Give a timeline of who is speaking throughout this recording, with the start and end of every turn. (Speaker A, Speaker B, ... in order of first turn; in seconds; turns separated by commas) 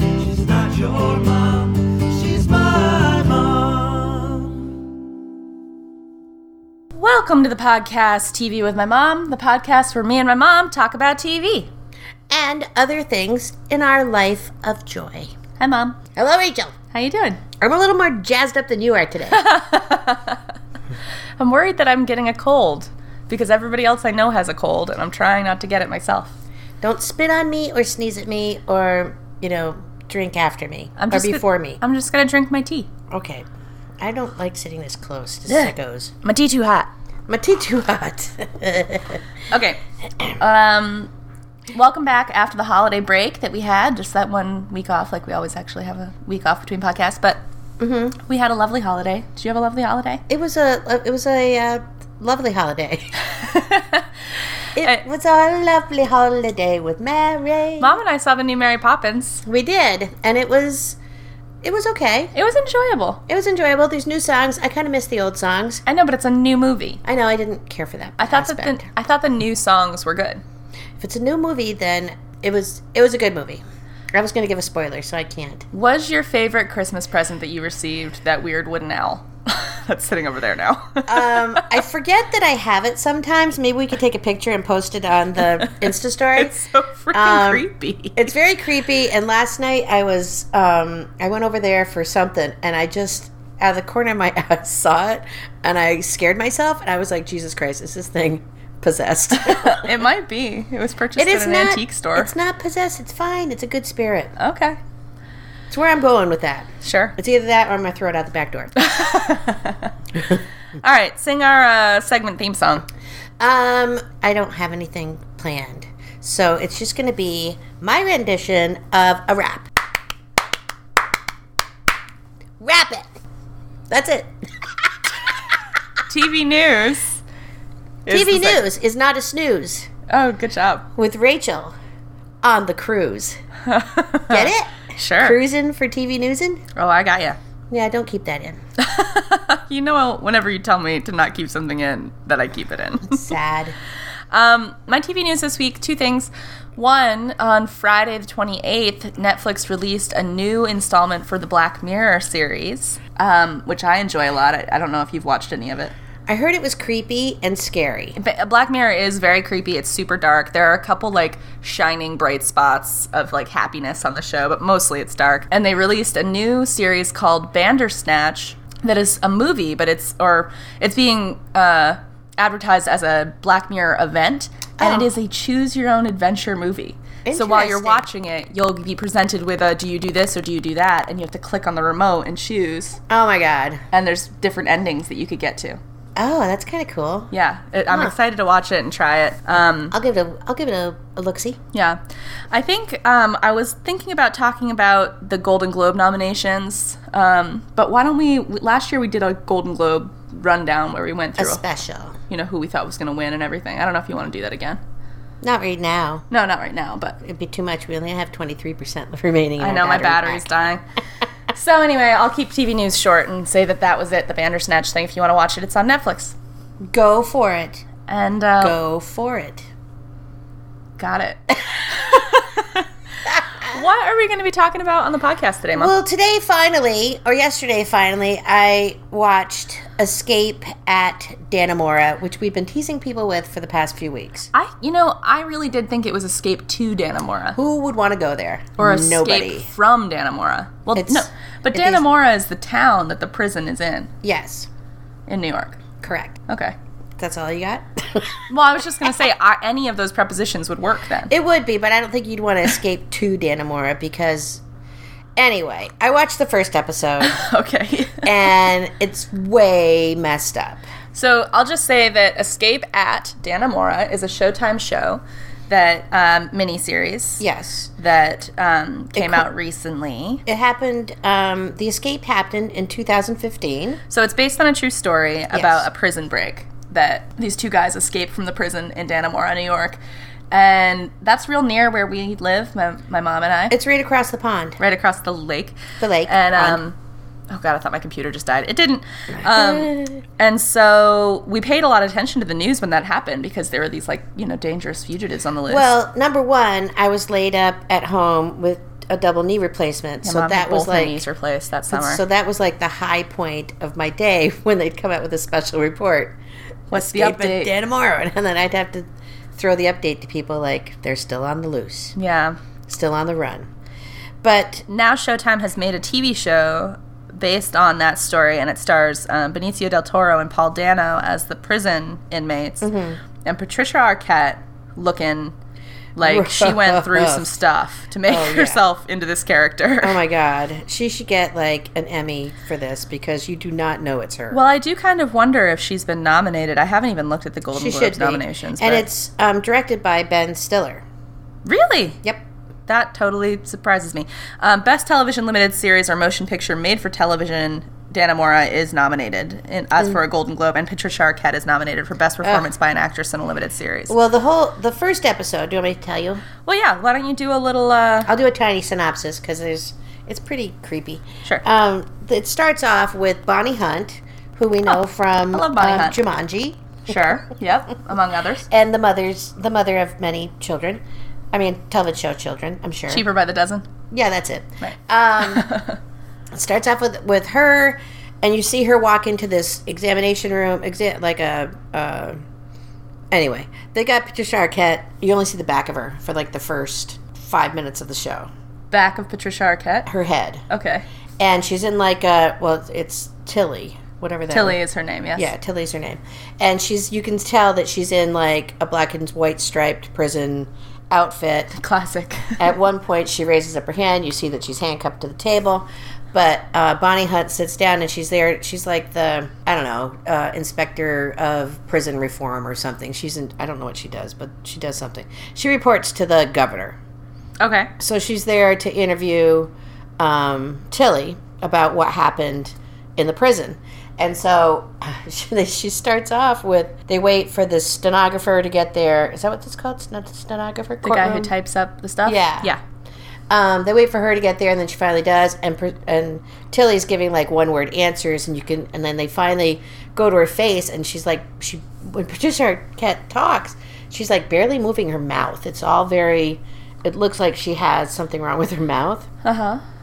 Speaker A: 7.0-11.7, Speaker B: 12.3-15.3, Speaker A: 15.6-16.0, Speaker B: 16.1-16.8, Speaker A: 16.9-17.4, Speaker B: 17.6-19.4, Speaker A: 19.3-20.4, Speaker A: 21.4-26.3, Speaker B: 26.8-31.8, Speaker A: 31.0-32.9, Speaker B: 33.1-33.5, Speaker B: 34.0-36.1, Speaker A: 36.2-36.9, Speaker B: 37.3-39.2, Speaker A: 39.5-39.8, Speaker A: 40.4-41.1, Speaker A: 41.7-47.4, Speaker B: 47.8-48.1, Speaker A: 48.2-50.2, Speaker B: 50.3-53.1, Speaker A: 53.4-54.0, Speaker B: 54.8-57.9, Speaker A: 57.8-59.4, Speaker B: 59.5-61.0, Speaker B: 61.6-62.3, Speaker A: 62.3-63.2, Speaker B: 63.3-65.8, Speaker A: 65.9-67.0, Speaker B: 67.0-68.9, Speaker A: 68.2-70.4, Speaker B: 71.0-73.6, Speaker B: 74.1-75.6, Speaker A: 75.7-81.7, Speaker B: 81.1-86.6, Speaker A: 86.4-88.3, Speaker B: 87.1-99.9, Speaker A: 99.4-102.3, Speaker B: 101.2-104.3, Speaker A: 104.4-104.8, Speaker B: 105.7-108.8, Speaker A: 106.8-107.2, Speaker A: 108.8-109.9, Speaker A: 110.8-112.8, Speaker B: 113.4-119.7, Speaker B: 122.6-123.1, Speaker B: 123.9-125.2, Speaker A: 126.1-127.2, Speaker A: 128.1-128.6, Speaker B: 128.1-129.9, Speaker A: 130.1-130.8, Speaker B: 130.9-131.7, Speaker B: 132.4-133.4, Speaker A: 133.7-135.4, Speaker B: 134.3-136.6, Speaker A: 136.8-137.4, Speaker B: 137.7-138.6, Speaker A: 138.8-143.3, Speaker B: 143.1-143.8, Speaker A: 144.3-155.9, Speaker B: 156.3-158.2, Speaker A: 158.2-183.0, Speaker B: 174.8-175.1, Speaker B: 177.3-178.1, Speaker B: 183.1-183.8, Speaker A: 183.9-185.8, Speaker B: 186.2-187.3, Speaker A: 187.3-190.0, Speaker B: 189.9-191.6, Speaker A: 191.7-192.0, Speaker A: 192.5-201.6, Speaker B: 201.4-202.2, Speaker A: 202.3-204.8, Speaker B: 205.4-206.3, Speaker A: 206.3-207.2, Speaker B: 207.2-210.5, Speaker A: 209.6-210.8, Speaker A: 211.5-216.4, Speaker B: 216.8-217.8, Speaker A: 218.1-218.8, Speaker B: 218.6-219.7, Speaker A: 221.0-225.9, Speaker B: 223.4-223.8, Speaker B: 225.7-234.5, Speaker A: 234.5-237.6, Speaker B: 237.6-239.7, Speaker A: 238.8-244.1, Speaker B: 241.0-242.1, Speaker B: 244.2-244.7, Speaker A: 245.3-245.8, Speaker B: 246.0-246.4, Speaker A: 246.5-246.8, Speaker B: 247.2-248.3, Speaker A: 248.5-251.3, Speaker B: 251.3-254.6, Speaker B: 255.4-257.4, Speaker A: 257.2-258.3, Speaker B: 258.2-260.9, Speaker A: 261.1-267.4, Speaker B: 267.4-267.9, Speaker A: 268.0-270.4, Speaker B: 269.2-269.5, Speaker B: 270.5-274.0, Speaker A: 274.1-280.0, Speaker B: 275.5-275.9, Speaker A: 280.5-283.8, Speaker B: 283.7-284.8, Speaker A: 284.8-286.9, Speaker B: 286.0-286.8, Speaker A: 287.5-295.9, Speaker B: 289.4-290.2, Speaker B: 295.7-301.2, Speaker A: 300.2-302.2, Speaker B: 301.9-306.4, Speaker A: 306.9-307.7, Speaker B: 306.9-312.1, Speaker A: 312.2-312.6, Speaker B: 312.9-313.7, Speaker B: 314.4-314.9, Speaker A: 314.9-322.9, Speaker B: 322.8-323.2, Speaker A: 323.4-325.5, Speaker A: 326.2-330.2, Speaker B: 326.2-327.5, Speaker B: 328.3-328.8, Speaker B: 330.0-334.6, Speaker A: 334.5-339.1, Speaker B: 337.7-341.0, Speaker A: 341.6-342.2, Speaker A: 342.9-354.1, Speaker B: 354.1-356.4, Speaker A: 356.6-358.3, Speaker B: 358.3-366.9, Speaker A: 365.5-366.2, Speaker A: 367.1-368.7, Speaker B: 368.7-371.0, Speaker B: 371.5-373.2, Speaker A: 373.1-373.9, Speaker B: 374.1-375.7, Speaker A: 374.8-376.0, Speaker B: 376.5-382.4, Speaker B: 383.3-388.5, Speaker A: 388.9-390.1, Speaker B: 390.1-390.6, Speaker A: 390.7-391.0, Speaker B: 391.4-394.8, Speaker A: 394.5-395.5, Speaker B: 395.4-401.8, Speaker A: 401.8-402.6, Speaker B: 402.6-417.0, Speaker A: 417.6-417.9, Speaker B: 418.0-431.5, Speaker A: 431.0-432.8, Speaker B: 432.3-432.7, Speaker B: 433.5-449.3, Speaker A: 449.4-449.8